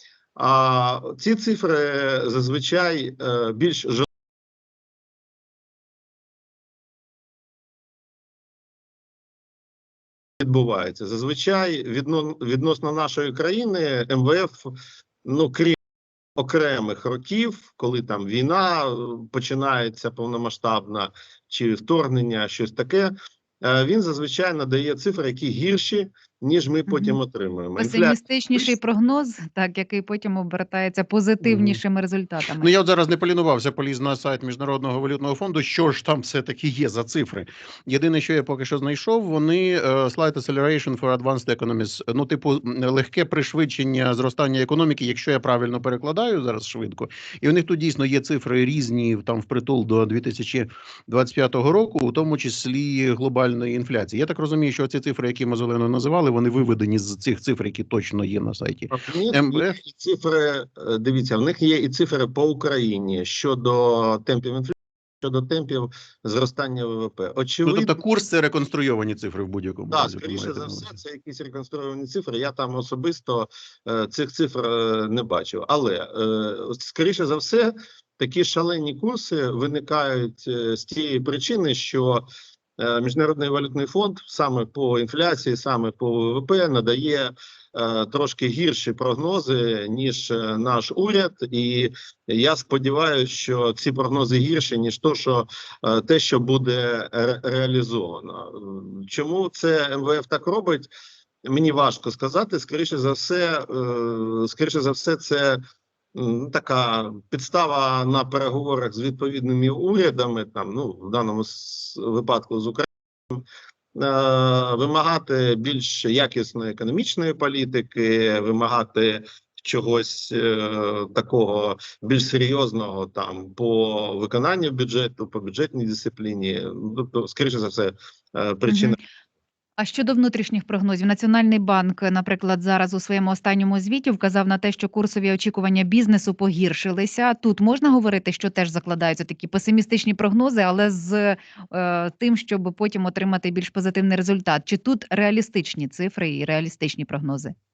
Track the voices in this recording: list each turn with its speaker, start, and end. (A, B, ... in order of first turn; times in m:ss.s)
0:00.4-0:04.1 A
0:10.4-0:15.8 A
0:16.4-0:28.7 A
0:26.9-0:27.2 B
0:27.8-0:32.7 B
0:31.4-0:31.8 C
0:32.6-0:59.7 C
0:58.9-1:08.0 A
1:07.6-1:11.0 C
1:09.9-1:22.2 A
1:22.8-1:40.9 A
1:41.4-1:45.6 A
1:46.1-2:09.0 A
2:08.7-2:09.0 B
2:09.8-2:27.5 B